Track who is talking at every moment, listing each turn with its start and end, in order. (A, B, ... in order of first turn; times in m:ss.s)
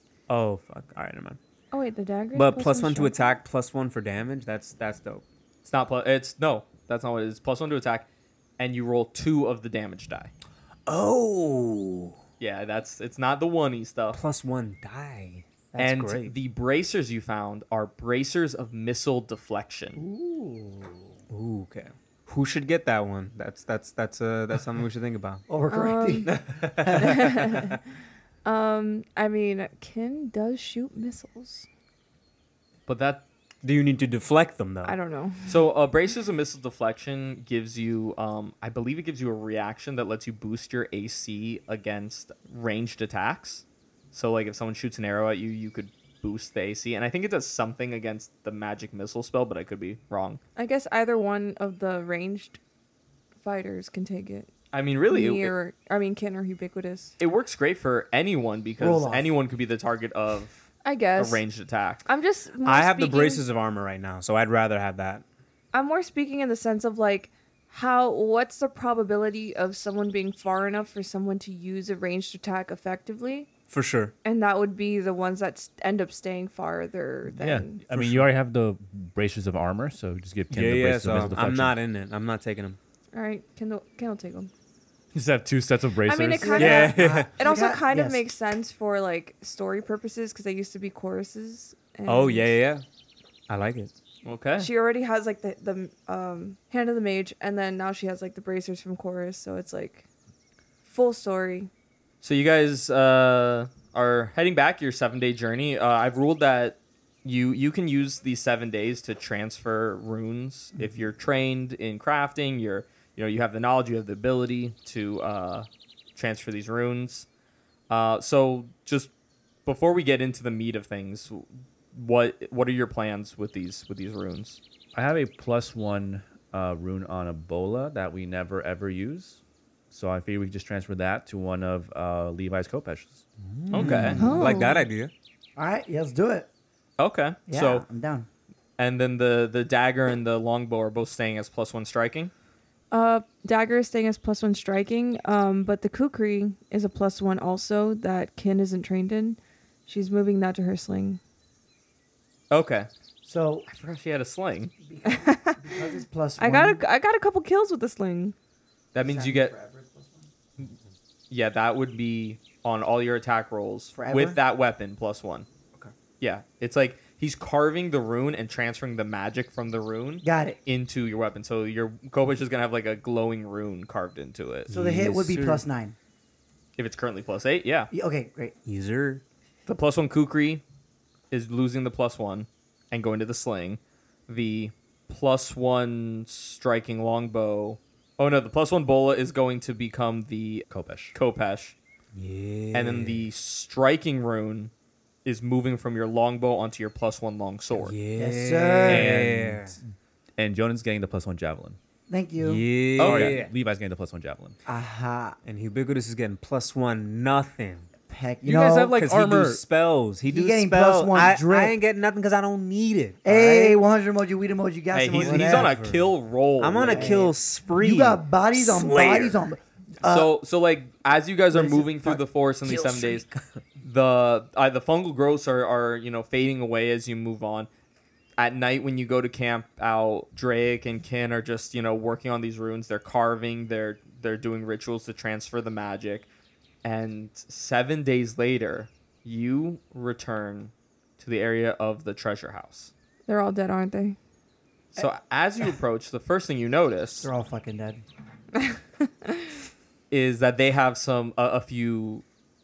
0:00.3-0:01.4 A
0:01.7-0:03.4 B
0:02.3-0:05.2 A
0:05.6-0:08.0 C
0:08.6-0:10.3 C
0:10.9-0:12.2 A
0:12.4-0:14.2 C
0:14.1-0:16.3 A
0:15.8-0:20.0 C
0:20.0-0:21.2 D
0:21.3-0:25.4 A
0:25.5-0:27.6 D
0:25.7-0:26.3 B
0:27.0-0:27.8 B
0:28.4-0:31.7 B
0:32.9-0:33.2 C
0:33.6-0:35.0 A
0:34.8-0:35.6 B
0:35.5-0:50.4 C
0:50.6-0:52.6 B
0:53.4-0:54.5 B
0:54.7-0:55.5 C
0:55.1-0:57.1 B
0:57.2-1:00.6 C
0:58.8-0:59.3 D
1:00.8-1:01.4 B
1:01.2-1:02.0 C
1:02.0-1:03.4 B
1:02.6-1:05.2 A
1:05.7-1:13.5 B
1:13.7-1:14.1 A
1:14.2-1:17.8 B
1:17.3-1:21.8 E
1:17.9-1:18.2 A
1:20.5-1:22.8 A
1:23.1-1:24.5 B
1:25.1-1:26.8 E
1:26.0-1:32.5 B
1:26.4-1:28.2 D
1:26.6-1:27.3 A
1:32.0-1:32.8 A
1:33.5-1:33.9 A
1:34.2-1:34.7 C
1:34.6-1:40.0 B
1:40.8-1:41.7 B
1:42.2-1:57.3 C
1:57.9-1:59.1 C
1:59.6-2:04.6 C
2:04.9-2:09.4 E
2:09.9-2:13.2 E
2:13.4-2:15.1 A
2:13.7-2:14.2 C
2:13.8-2:14.2 E
2:13.8-2:14.6 D
2:14.2-2:14.9 B
2:15.6-2:16.5 D
2:17.0-2:17.8 C
2:17.5-2:18.3 D
2:18.8-2:22.3 C
2:22.9-2:31.2 B
2:32.5-2:32.9 C
2:33.2-2:33.7 D
2:33.7-2:34.7 C
2:34.8-2:36.8 D
2:35.0-2:35.8 B
2:36.4-2:38.3 B
2:38.9-2:39.5 C
2:39.0-2:40.3 D
2:41.3-2:45.5 C
2:43.9-2:44.4 D
2:46.2-2:54.7 C
2:50.2-2:50.6 D
2:54.7-2:55.6 A
2:54.7-2:55.9 D
2:56.8-2:57.9 C
2:57.9-2:58.5 D
2:58.6-2:59.2 A
2:59.7-3:00.6 C
3:01.3-3:11.8 C
3:10.7-3:11.2 E
3:12.1-3:13.3 A
3:12.7-3:14.7 C
3:15.2-3:17.9 C
3:17.7-3:19.8 A
3:18.1-3:19.1 D
3:18.8-3:21.8 E
3:22.1-3:22.6 D
3:22.4-3:23.5 A
3:23.0-3:23.4 C
3:23.0-3:24.6 E
3:24.6-3:25.4 D
3:25.4-3:27.9 A
3:28.1-3:29.0 D
3:28.4-3:29.6 E
3:28.9-3:33.8 A
3:30.3-3:31.7 D
3:33.2-3:35.7 D
3:34.9-3:37.2 C
3:35.2-3:39.4 A
3:36.8-3:40.3 D
3:40.0-3:43.2 C
3:41.5-3:42.2 D
3:42.6-3:43.3 A
3:43.8-3:47.7 C
3:48.4-3:56.3 C
3:56.8-4:02.9 C
4:03.3-4:04.2 B
4:04.9-4:07.3 C
4:07.2-4:08.0 D
4:10.1-4:12.2 C